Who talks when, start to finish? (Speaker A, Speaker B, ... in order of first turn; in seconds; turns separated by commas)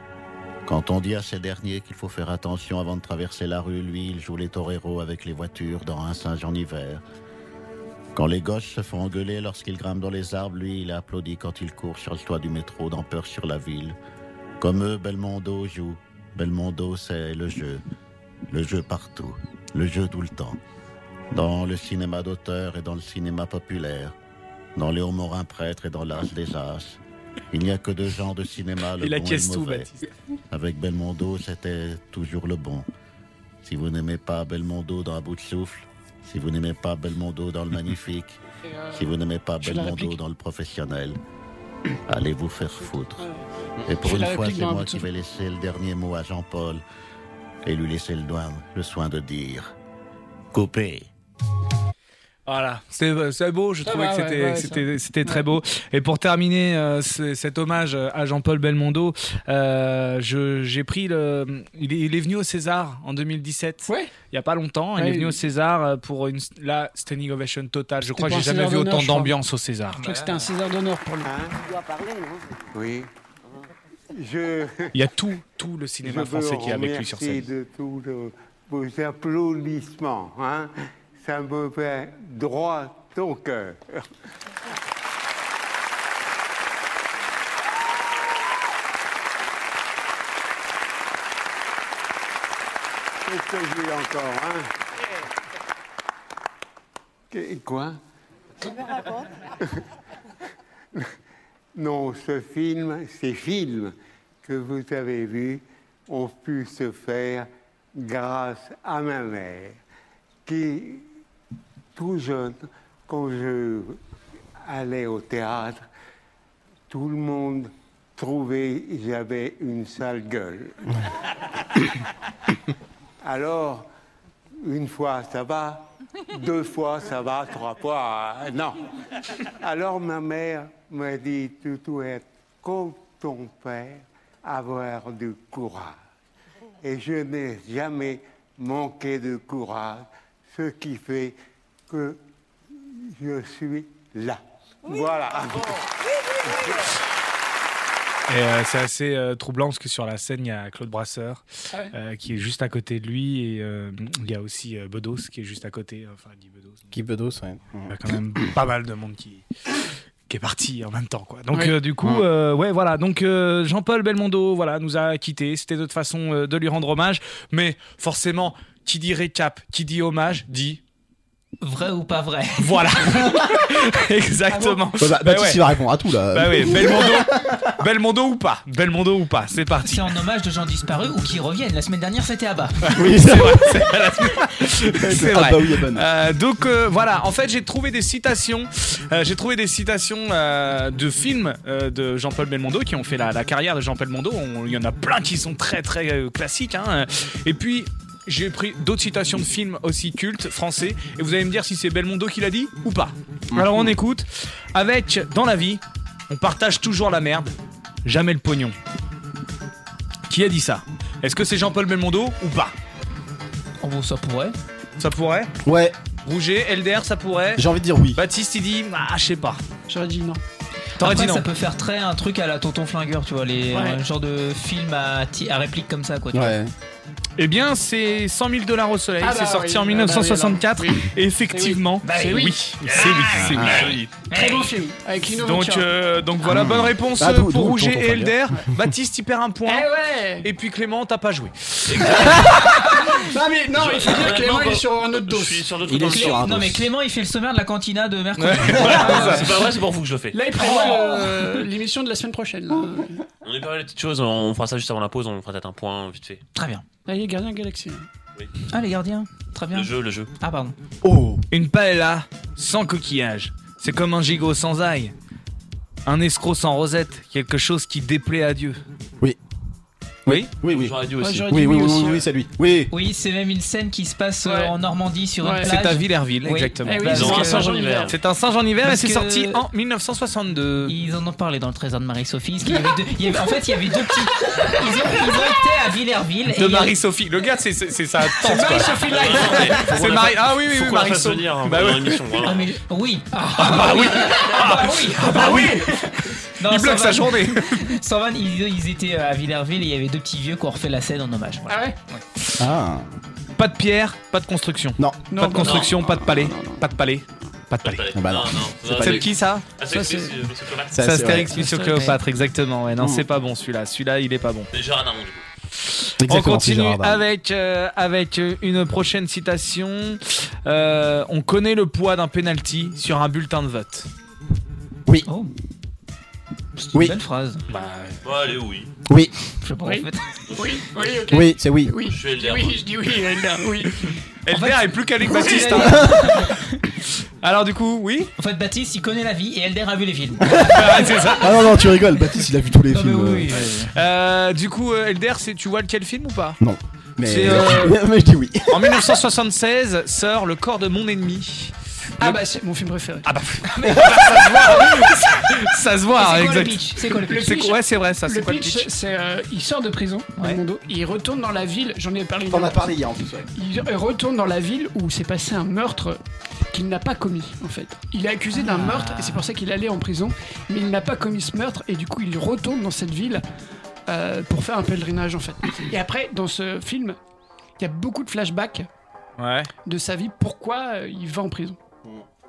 Speaker A: 0.7-7.0, Speaker A: 8.1-13.9, Speaker A: 14.6-17.8, Speaker A: 18.5-20.6, Speaker A: 21.3-24.1, Speaker A: 24.8-27.0, Speaker A: 27.5-29.9, Speaker B: 29.0-30.1, Speaker A: 30.5-32.9, Speaker A: 33.6-38.4, Speaker A: 38.9-41.2, Speaker C: 39.6-40.1, Speaker A: 42.1-43.3, Speaker C: 43.2-43.5, Speaker A: 43.8-46.8, Speaker C: 44.0-45.1, Speaker A: 47.6-49.7, Speaker A: 50.5-51.1, Speaker B: 52.5-70.3, Speaker C: 53.8-55.4, Speaker C: 63.9-64.2, Speaker C: 65.0-65.3, Speaker C: 68.1-69.3, Speaker C: 70.0-71.4, Speaker D: 71.3-71.5, Speaker D: 72.7-73.1, Speaker D: 74.1-74.9, Speaker B: 74.9-77.5, Speaker D: 76.0-84.0, Speaker D: 93.2-94.7, Speaker D: 97.3-98.0, Speaker D: 101.7-109.8, Speaker D: 110.5-111.1, Speaker D: 112.0-114.0, Speaker D: 114.6-115.9, Speaker D: 116.9-120.8, Speaker D: 123.2-123.9, Speaker D: 124.6-128.8, Speaker D: 129.5-136.0, Speaker D: 136.8-141.4, Speaker D: 141.9-142.2, Speaker D: 142.9-145.8, Speaker D: 146.4-146.8, Speaker B: 148.3-156.9, Speaker E: 156.9-157.9, Speaker B: 157.9-159.5, Speaker B: 160.3-170.8, Speaker C: 161.5-161.8, Speaker F: 171.6-173.2, Speaker B: 172.6-175.8, Speaker C: 174.5-174.8, Speaker E: 175.0-177.3, Speaker B: 176.3-180.1, Speaker F: 179.8-182.8, Speaker B: 182.8-207.5, Speaker E: 183.0-183.8, Speaker E: 185.0-186.1, Speaker E: 203.5-203.9, Speaker B: 208.1-208.8, Speaker B: 210.3-212.7, Speaker F: 213.8-214.6, Speaker B: 215.0-215.5, Speaker E: 215.6-215.9, Speaker B: 216.2-219.6, Speaker E: 217.6-218.2, Speaker C: 219.9-220.4, Speaker F: 221.0-226.6, Speaker B: 221.0-221.5, Speaker C: 223.7-224.0, Speaker E: 226.3-226.7, Speaker B: 227.4-234.0, Speaker C: 229.2-232.6, Speaker F: 232.0-234.7, Speaker E: 233.4-233.8, Speaker G: 233.6-234.1, Speaker C: 234.3-235.9, Speaker B: 235.3-242.8, Speaker E: 236.4-238.4, Speaker C: 239.6-240.5, Speaker G: 241.9-242.4, Speaker C: 243.2-245.7, Speaker G: 243.7-246.4, Speaker E: 245.8-246.9, Speaker F: 246.1-249.5, Speaker B: 248.4-249.5, Speaker G: 248.7-251.1, Speaker C: 250.3-253.2, Speaker G: 253.4-256.4, Speaker F: 256.6-256.8, Speaker C: 257.1-258.1, Speaker F: 258.7-260.7, Speaker G: 259.7-260.3, Speaker E: 261.0-261.4, Speaker B: 261.5-265.1, Speaker B: 266.1-268.8, Speaker E: 270.3-272.9, Speaker G: 270.6-272.2, Speaker C: 271.2-272.2, Speaker F: 272.9-277.7, Speaker C: 274.4-274.7, Speaker C: 275.4-275.7, Speaker B: 275.6-280.9, Speaker C: 276.8-278.2, Speaker G: 277.0-278.1, Speaker F: 278.8-279.6, Speaker F: 280.8-286.9, Speaker B: 286.5-292.3, Speaker C: 288.4-289.8, Speaker G: 289.1-292.7, Speaker F: 292.4-296.0, Speaker B: 293.6-295.8, Speaker C: 294.3-295.8, Speaker F: 296.6-302.2, Speaker B: 296.6-297.7, Speaker C: 301.7-301.9, Speaker E: 302.6-303.1, Speaker B: 303.6-308.1, Speaker E: 305.0-305.3, Speaker C: 305.3-306.9, Speaker G: 305.6-305.9, Speaker G: 307.8-311.2, Speaker E: 308.1-309.2, Speaker B: 309.0-309.7, Speaker C: 309.9-310.4, Speaker E: 310.9-311.5, Speaker B: 311.0-314.7, Speaker F: 311.6-312.1, Speaker G: 314.7-315.4, Speaker E: 316.2-317.2, Speaker B: 316.2-324.1, Speaker F: 325.3-325.5, Speaker F: 326.9-327.6, Speaker G: 327.6-328.9, Speaker B: 327.7-328.2, Speaker F: 329.6-330.2, Speaker C: 329.8-334.0, Speaker G: 330.5-331.3, Speaker E: 331.3-331.9, Speaker G: 332.1-333.0, Speaker B: 334.4-336.4, Speaker F: 334.5-336.8, Speaker E: 335.8-336.2, Speaker B: 337.4-338.3, Speaker F: 338.4-341.8, Speaker E: 340.4-340.7, Speaker B: 340.7-341.6, Speaker E: 341.4-343.6, Speaker F: 342.9-343.9, Speaker B: 343.9-346.6, Speaker E: 346.6-349.1, Speaker B: 347.2-348.0, Speaker B: 348.7-352.4, Speaker C: 352.2-353.3, Speaker B: 353.2-356.8, Speaker F: 356.2-357.6, Speaker C: 357.2-362.9, Speaker B: 357.4-358.9, Speaker E: 362.5-363.4, Speaker C: 363.6-366.2, Speaker C: 366.7-373.4, Speaker F: 368.6-369.5, Speaker C: 374.1-377.2, Speaker C: 377.8-378.9, Speaker B: 379.4-379.7, Speaker C: 379.9-381.8